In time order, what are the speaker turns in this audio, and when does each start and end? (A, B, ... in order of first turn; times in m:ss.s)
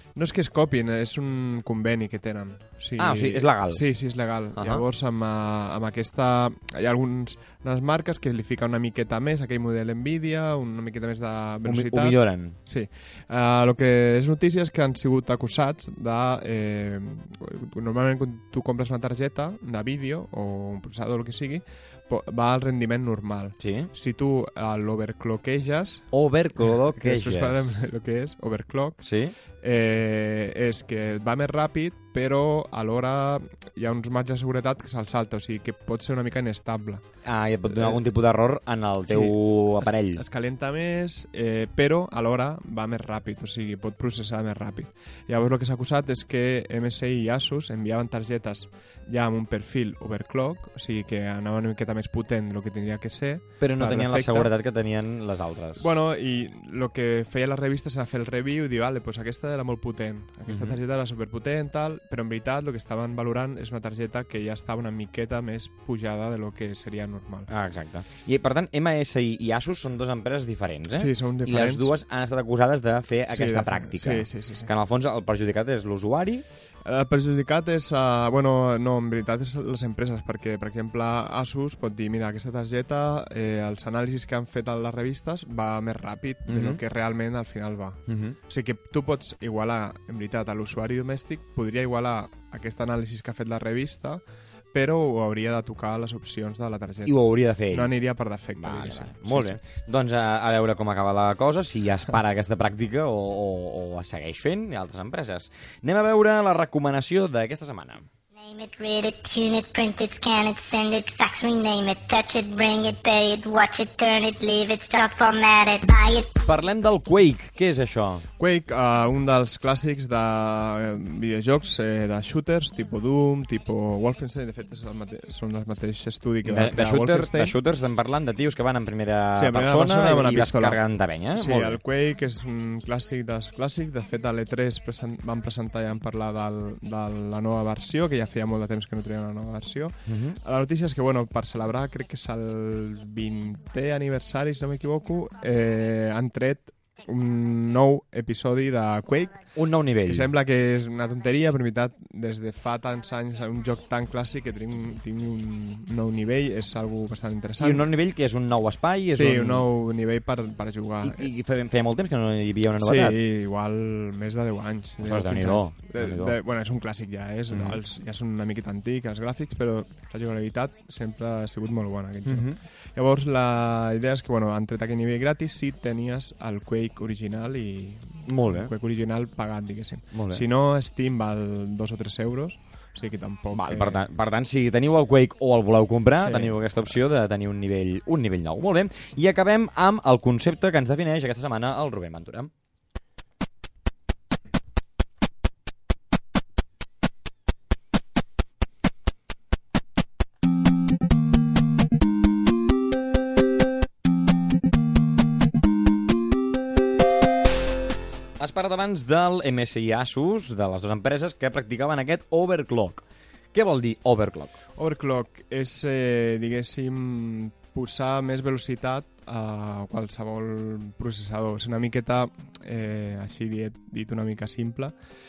0:00.2-0:26.1 A
0:03.0-0:03.8 B
0:04.6-0:04.8 B
0:11.7-0:12.6 B
0:23.6-0:23.9 B
0:26.1-0:27.7 B
0:26.6-0:29.0 A
0:29.0-0:29.4 B
0:29.6-0:37.0 A
0:37.2-0:40.2 B
0:37.7-0:38.0 A
0:39.1-0:54.5 A
0:53.6-0:55.9 B
0:55.8-1:07.5 A
1:00.5-1:00.8 B
1:07.5-1:16.4 B
1:11.0-1:12.0 A
1:13.3-1:14.7 A
1:16.8-1:34.2 A
1:26.5-1:26.8 B
1:28.1-1:28.4 B
1:34.7-1:37.2 A
1:37.0-1:37.9 B
1:37.7-1:39.6 A
1:38.6-1:48.1 B
1:48.4-1:56.3 C
1:56.4-1:58.3 B
1:58.4-2:07.6 A
2:06.4-2:11.8 B
2:09.4-2:10.8 A
2:11.4-2:29.5 A
2:20.1-2:20.4 B
2:29.6-2:30.3 B
2:30.1-2:37.9 A
2:37.6-2:39.7 B
2:39.1-2:41.3 A
2:41.0-2:43.2 B
2:42.8-3:04.1 A
2:45.0-2:46.4 B
2:47.5-2:47.8 B
2:52.2-2:52.6 B
2:58.3-2:58.7 B
3:00.1-3:00.4 B
3:03.5-3:12.5 B
3:06.2-3:06.7 A
3:28.4-3:34.6 B
3:34.8-3:44.9 A